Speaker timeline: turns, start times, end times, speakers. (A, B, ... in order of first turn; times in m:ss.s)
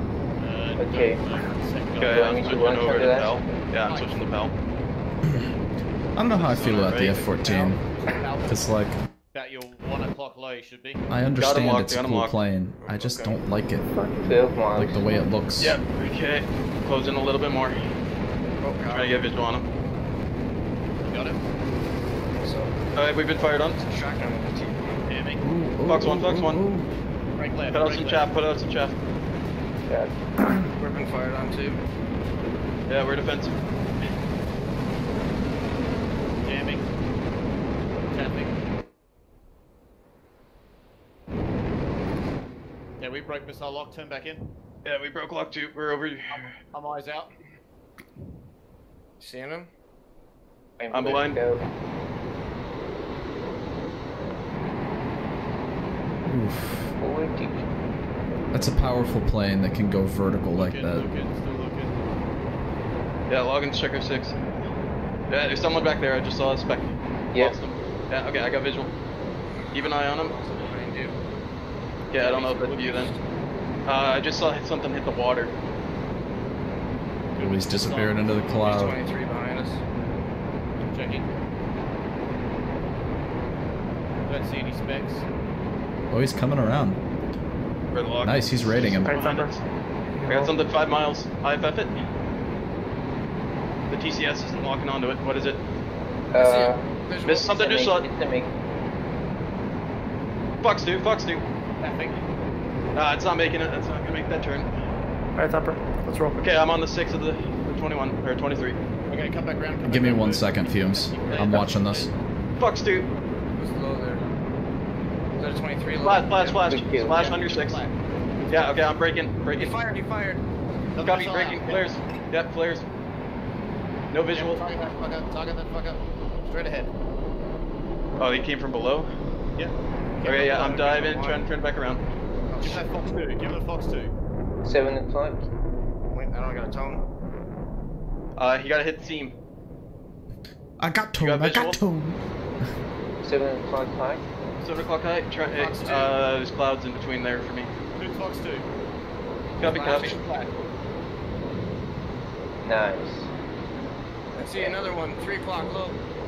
0:00.4-0:04.2 A
0:00.8-0:01.2 B
0:02.0-0:04.5 C
0:02.2-0:03.2 B
0:06.1-0:07.9 D
0:06.3-0:07.2 C
0:07.0-0:11.0 A
0:08.4-0:09.0 D
0:11.1-0:13.9 D
0:11.4-0:12.4 C
0:12.8-0:13.4 E
0:14.2-0:15.0 B
0:14.7-0:15.8 D
0:15.6-0:17.8 C
0:18.6-0:19.2 E
0:18.9-0:19.6 C
0:21.0-0:21.4 A
0:22.4-0:22.7 E
0:22.9-0:23.8 C
0:23.7-0:24.9 E
0:25.1-0:25.4 A
0:25.4-0:26.9 D
0:25.8-0:26.6 C
0:27.4-0:28.3 A
0:27.7-0:29.0 C
0:30.6-0:31.8 E
0:32.9-0:33.5 C
0:36.4-0:36.9 A
0:38.1-0:38.5 A
0:43.0-0:44.5 A
0:44.8-0:46.6 C
0:46.3-0:47.3 A
0:49.2-0:49.7 E
0:50.8-0:51.6 B
0:50.9-0:51.4 C
0:56.2-0:56.9 D
0:57.0-0:57.6 B
0:58.5-1:01.1 D
1:00.5-1:01.9 A
1:03.3-1:04.4 C
1:05.3-1:08.9 C
1:09.7-1:10.3 C
1:09.7-1:11.2 E
1:12.1-1:13.1 C
1:12.1-1:13.2 E
1:13.9-1:15.5 C
1:17.4-1:18.4 A
1:17.4-1:19.0 D
1:18.6-1:19.8 E
1:20.8-1:21.3 A
1:24.2-1:25.2 A
1:26.1-1:27.0 D
1:27.9-1:29.6 C
1:28.2-1:29.2 D
1:29.0-1:29.6 F
1:30.2-1:30.5 F
1:30.2-1:32.0 C
1:33.9-1:35.6 C
1:36.3-1:36.8 B
1:36.4-1:37.6 E
1:37.2-1:38.0 C
1:37.6-1:38.5 B
1:40.6-1:41.4 C
1:41.8-1:42.2 A
1:42.9-1:44.7 C
1:45.4-1:46.4 F
1:46.4-1:48.8 C
1:49.1-1:52.1 A
1:49.8-1:52.1 D
1:52.6-1:53.1 C
1:53.6-1:54.3 E
1:55.4-1:56.8 E
1:56.0-1:57.8 C
1:56.7-1:57.4 B
1:57.1-1:58.9 A
1:58.5-1:59.8 C
1:59.6-2:00.4 E
2:00.9-2:01.8 A
2:01.0-2:02.8 C
2:04.1-2:04.6 C
2:04.3-2:06.9 A
2:08.2-2:09.1 C
2:09.6-2:11.3 A
2:10.2-2:12.0 C
2:10.6-2:11.4 E
2:12.5-2:12.8 E
2:12.6-2:14.1 A
2:14.6-2:15.4 B
2:16.1-2:17.0 E
2:18.4-2:19.4 C
2:20.8-2:22.2 D
2:21.2-2:21.8 C
2:23.2-2:24.2 B
2:24.6-2:27.7 C
2:25.6-2:26.1 A
2:28.0-2:28.6 A
2:29.6-2:30.2 E
2:29.6-2:30.5 C
2:29.8-2:30.2 A
2:32.6-2:33.3 B
2:34.4-2:36.0 E
2:34.5-2:34.8 B